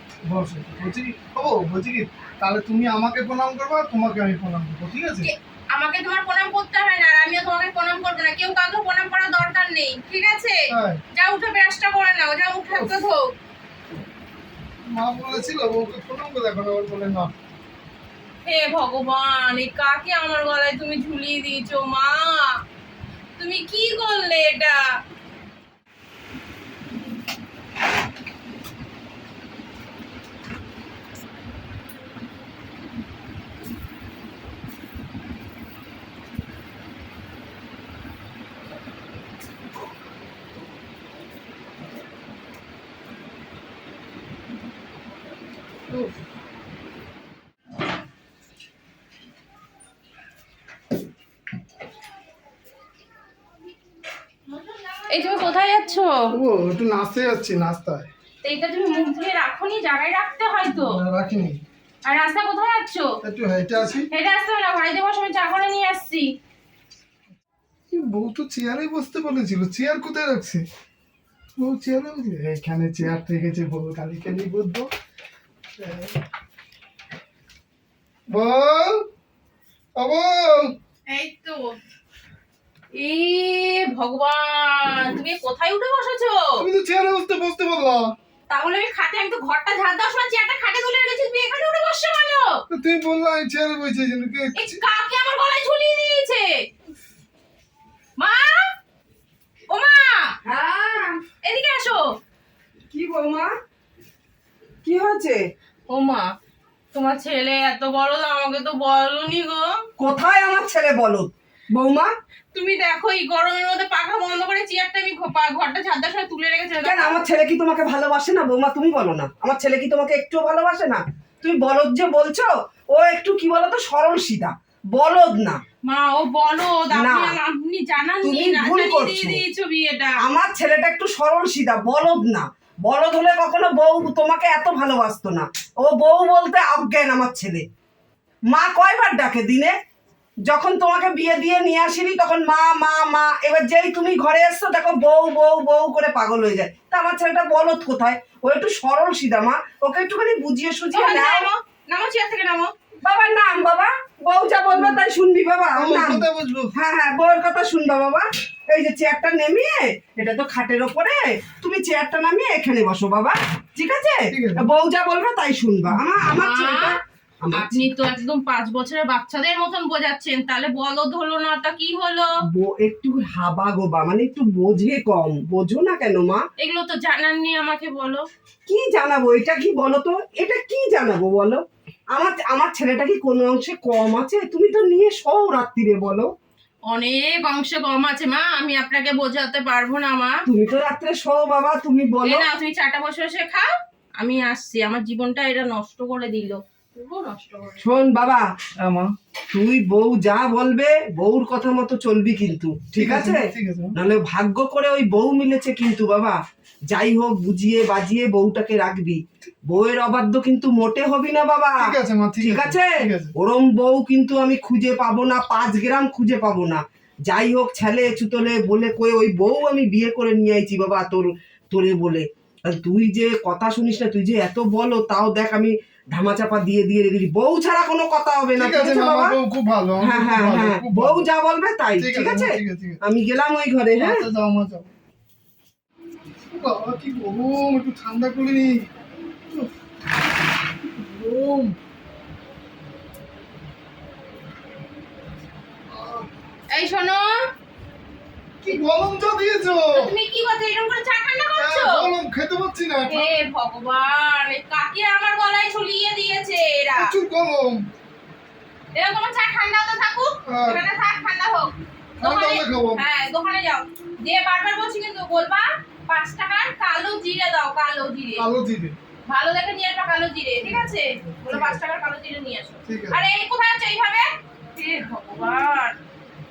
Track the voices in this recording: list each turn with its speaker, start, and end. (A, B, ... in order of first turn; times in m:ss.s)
0:00.2-0:05.3 A
0:05.2-0:10.6 B
0:10.7-0:11.0 A
0:11.1-0:13.3 B
0:12.7-0:13.0 A
0:14.9-0:17.3 A
0:18.4-0:22.6 B
0:23.4-0:24.8 B
0:55.1-0:56.3 B
0:56.3-0:58.1 A
0:58.4-1:01.0 B
1:00.7-1:01.6 A
1:02.1-1:03.1 B
1:03.2-1:04.1 A
1:04.1-1:06.3 B
1:07.9-1:10.7 A
1:11.6-1:14.9 A
1:15.8-1:16.2 A
1:18.3-1:19.0 A
1:20.0-1:20.7 A
1:21.1-1:21.8 B
1:22.9-1:26.6 B
1:26.6-1:28.1 A
1:28.5-1:32.6 B
1:32.7-1:34.8 A
1:34.5-1:36.5 B
1:38.2-1:38.6 B
1:39.7-1:40.3 B
1:40.4-1:41.2 C
1:41.4-1:42.0 B
1:42.9-1:43.5 C
1:44.8-1:45.4 C
1:45.9-1:46.3 B
1:46.9-1:49.7 B
1:50.0-1:52.1 C
1:52.5-1:57.2 B
1:56.8-2:05.6 C
2:05.8-2:10.2 B
2:06.9-2:07.4 C
2:08.2-2:09.4 C
2:10.2-2:17.6 C
2:18.5-2:19.7 C
2:20.5-2:31.5 C
2:30.9-2:32.7 B
2:33.0-2:47.9 C
2:35.8-2:36.7 A
2:44.3-2:44.6 A
2:46.3-2:47.0 B
2:47.6-2:52.3 B
2:52.5-2:56.4 C
2:56.6-2:58.2 B
2:58.7-3:01.6 C
3:02.1-3:06.3 C
3:06.9-3:10.4 B
3:10.5-3:12.4 C
3:12.2-3:17.8 B
3:17.8-3:23.4 C
3:23.0-3:23.9 A
3:23.9-3:26.4 C
3:26.9-3:49.4 C
3:31.8-3:33.3 A
3:48.6-3:51.2 A
3:50.0-3:54.3 C
3:52.0-3:53.0 A
3:54.0-3:54.9 A
3:56.5-3:58.9 A
4:00.8-4:01.8 A
4:05.9-4:06.3 A
4:06.7-4:07.3 B
4:08.6-4:10.1 A
4:10.0-4:12.1 B
4:11.6-4:13.4 A
4:13.1-4:17.1 B
4:16.9-4:17.8 A
4:18.9-4:28.5 B
4:20.5-4:20.9 A
4:22.2-4:23.0 A
4:28.4-4:29.0 A
4:29.3-4:35.9 B
4:30.6-4:31.8 A
4:32.9-4:33.2 A